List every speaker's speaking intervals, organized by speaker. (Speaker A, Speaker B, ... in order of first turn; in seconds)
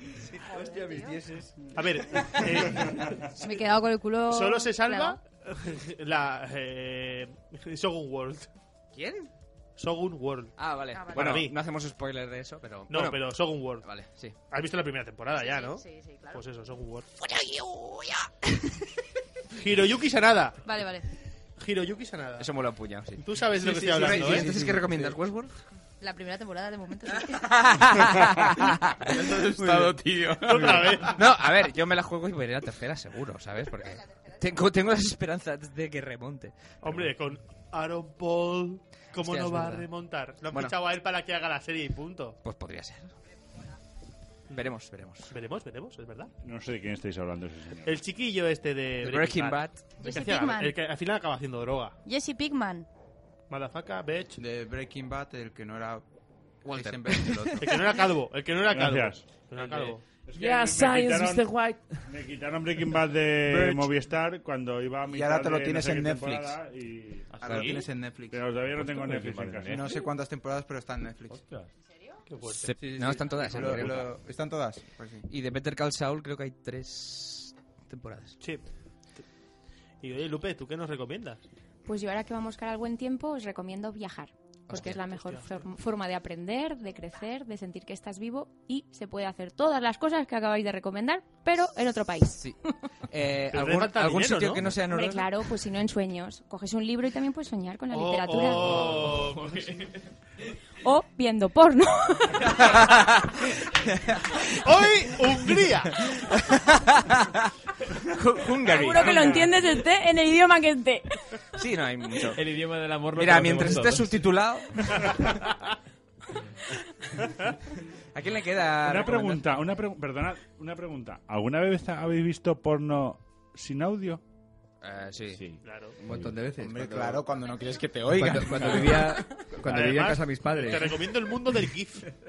Speaker A: 0.5-1.2, 3.4-5.2, 10.9-11.4, 15.3-16.4, 20.6-21.1, 26.0-27.6, 50.0-50.8, 52.0-52.9
Speaker B: 0.5-2.7, 126.0-127.2, 128.1-131.0
Speaker C: 1.8-3.0, 4.3-8.5, 9.8-10.6, 11.1-11.6, 12.9-13.9, 14.5-17.1, 19.5-20.6, 21.6-22.5, 23.2-24.5, 30.4-31.1, 36.8-42.4, 45.3-46.3, 47.9-52.0, 53.5-54.4, 57.6-60.0, 72.3-72.7, 80.0-81.4, 85.1-85.6, 93.5-94.7, 97.9-99.7, 104.6-106.1, 125.6-126.0, 129.7-132.1
Speaker D: 8.9-9.3, 10.6-14.3, 17.2-18.7, 22.4-25.5, 27.3-29.9, 31.1-36.5, 39.2-39.9, 42.4-43.1, 44.5-45.3, 49.0-50.0, 56.7-57.6, 72.7-74.1, 75.3-78.4, 84.7-85.0, 92.3-95.3, 102.6-104.7, 106.0-107.5, 108.0-109.5, 111.5-112.4, 113.1-115.4, 118.1-119.4, 124.8-125.4
Speaker E: 23.6-25.2, 29.0-31.2, 54.4-56.0, 56.6-57.8, 63.4-63.9, 65.1-66.6, 67.4-68.5, 69.7-71.4, 73.0-75.3, 126.6-129.2
Speaker F: 46.4-47.9, 58.7-59.2, 60.3-67.8, 68.3-69.9, 118.8-124.2
Speaker G: 59.6-61.8, 67.3-67.9, 68.7-70.0, 71.3-71.7, 98.5-100.1, 112.3-114.3, 125.4-126.3
Speaker H: 81.9-92.4, 94.8-98.8, 100.8-102.7, 108.7-111.2